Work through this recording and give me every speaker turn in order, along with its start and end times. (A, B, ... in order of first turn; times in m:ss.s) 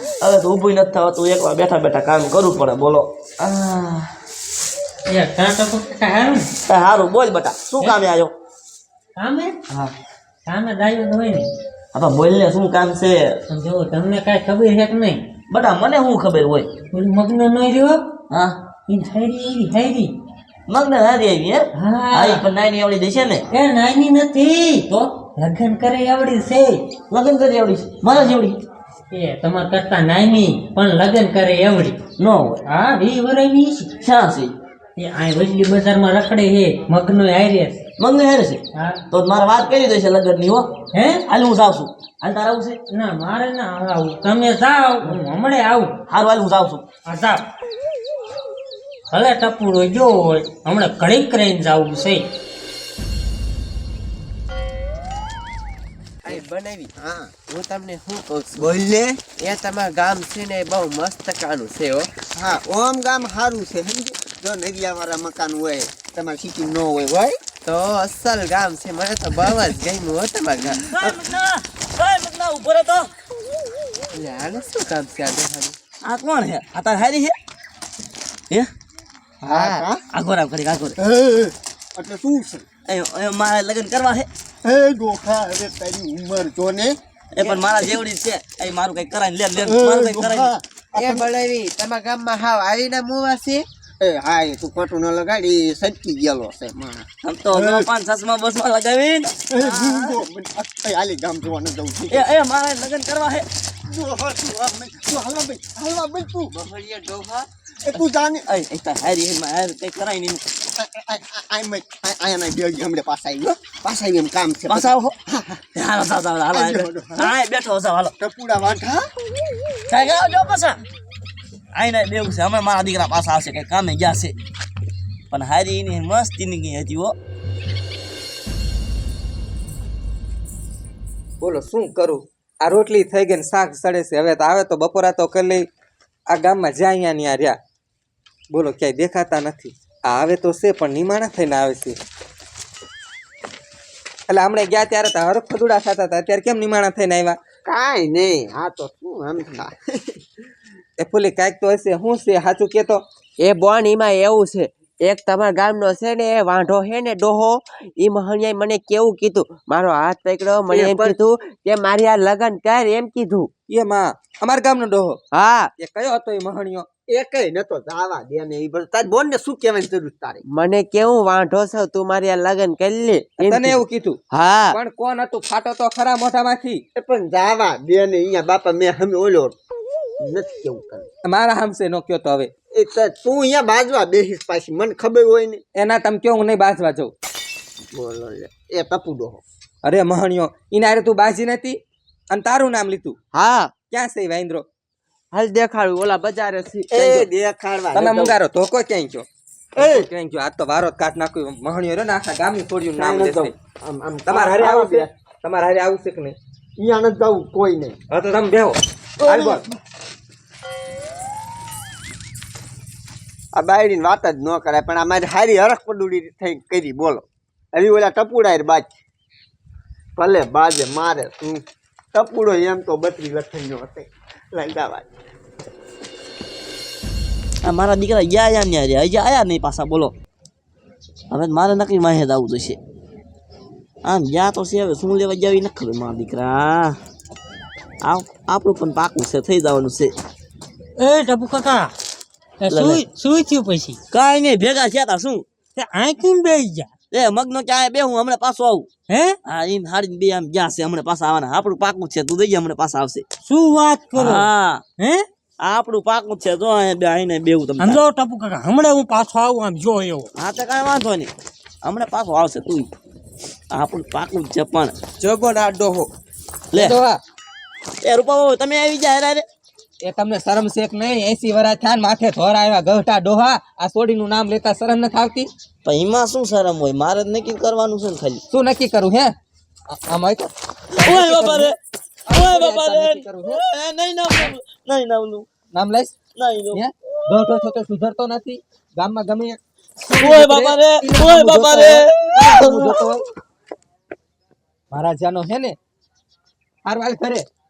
0:00.2-0:04.1 A
0:05.1-0:06.5 B
0:06.7-0:08.3 A
0:09.2-0:09.6 B
0:10.4-0:11.5 B
0:11.9-0:13.4 A
0:13.5-0:15.2 B
0:15.5-0:16.7 A
0:16.9-0:18.0 B
0:18.3-0:18.6 A
0:18.9-0:20.1 B
0:20.7-0:23.4 A
0:21.8-0:22.5 B
0:23.5-0:26.8 B
0:27.1-0:28.6 A
0:29.1-0:32.0 B
0:32.2-0:32.6 A
0:32.7-0:33.9 B
0:34.0-0:34.5 A
0:35.0-0:37.8 B
0:38.0-0:40.7 A
0:38.8-0:39.0 B
0:40.9-0:41.2 B
0:41.3-0:42.8 A
0:42.9-0:45.9 B
0:46.1-0:46.8 A
0:47.1-0:47.4 B
0:49.1-0:52.2 B
0:56.2-0:56.9 C
0:57.0-0:57.3 D
0:57.5-0:58.7 C
0:58.6-0:59.2 D
0:59.4-1:02.1 C
1:02.4-1:07.4 D
1:07.6-1:11.1 C
1:10.9-1:13.1 A
1:14.1-1:15.8 C
1:16.0-1:17.4 A
1:19.4-1:20.0 D
1:19.5-1:19.9 C
1:20.1-1:21.0 A
1:21.0-1:22.7 D
1:22.9-1:24.3 A
1:24.6-1:27.0 D
1:27.3-1:30.5 A
1:29.6-1:31.2 D
1:31.0-1:33.7 C
1:34.0-1:37.9 D
1:37.2-1:40.2 A
1:39.5-1:42.3 D
1:42.1-1:43.5 A
1:43.9-1:46.5 D
1:46.5-1:47.5 C
1:47.8-1:48.5 D
1:48.5-1:50.5 A
1:50.8-1:55.7 D
1:54.7-1:55.2 A
1:55.8-1:58.1 A
1:56.5-1:57.4 D
1:58.2-1:59.1 D
1:59.9-2:00.8 A
2:01.7-2:04.4 A
2:05.3-2:07.2 A
2:11.4-2:15.7 E
2:16.3-2:17.6 E
2:18.5-2:22.0 E
2:24.3-2:27.4 E
2:27.7-2:30.2 D
2:31.0-2:33.0 E
2:33.4-2:43.5 C
2:40.7-2:41.2 D
2:43.7-2:45.2 E
2:45.3-2:45.7 C
2:45.8-2:46.9 E
2:47.1-2:50.4 D
2:50.5-2:54.8 C
2:53.4-2:54.2 E
2:54.7-2:56.8 E
2:57.0-2:59.6 D
3:00.2-3:01.1 D
3:01.3-3:02.5 E
3:02.7-3:05.6 D
3:05.8-3:07.1 E
3:07.9-3:09.4 D
3:09.8-3:11.8 E
3:12.3-3:13.2 E
3:13.3-3:13.7 C
3:13.9-3:14.6 E
3:15.3-3:17.2 C
3:16.9-3:18.4 D
3:18.0-3:19.3 E
3:19.8-3:20.1 D
3:19.8-3:23.5 E
3:23.0-3:25.1 D
3:24.3-3:26.4 E
3:26.8-3:28.0 D
3:28.1-3:29.6 E
3:29.2-3:29.7 D
3:33.5-3:38.9 D
3:40.2-3:41.6 D
3:42.1-3:45.1 D
3:47.6-3:50.1 A
3:51.3-3:52.8 A
3:54.0-3:57.0 A
3:58.0-4:00.1 A
4:01.0-4:01.9 B
4:02.6-4:04.0 B
4:02.7-4:03.0 A
4:04.1-4:05.5 A
4:05.8-4:06.9 B
4:07.1-4:08.9 A
4:09.1-4:09.4 B
4:09.4-4:13.2 A
4:13.4-4:15.2 B
4:14.2-4:14.8 A
4:15.6-4:18.0 A
4:17.8-4:20.3 B
4:20.4-4:22.9 A
4:23.7-4:25.0 A
4:25.2-4:26.1 C
4:26.8-4:27.2 E
4:28.0-4:29.5 A
4:30.0-4:35.5 E
4:35.8-4:38.4 A
4:38.5-4:39.3 E
4:39.9-4:41.7 E
4:41.0-4:41.8 A
4:42.3-4:43.6 E
4:42.3-4:45.5 A
4:45.8-4:46.1 E
4:46.4-4:46.8 A
4:46.7-4:53.2 E
4:50.2-4:53.0 A
4:54.9-4:55.8 E
4:56.8-4:57.4 E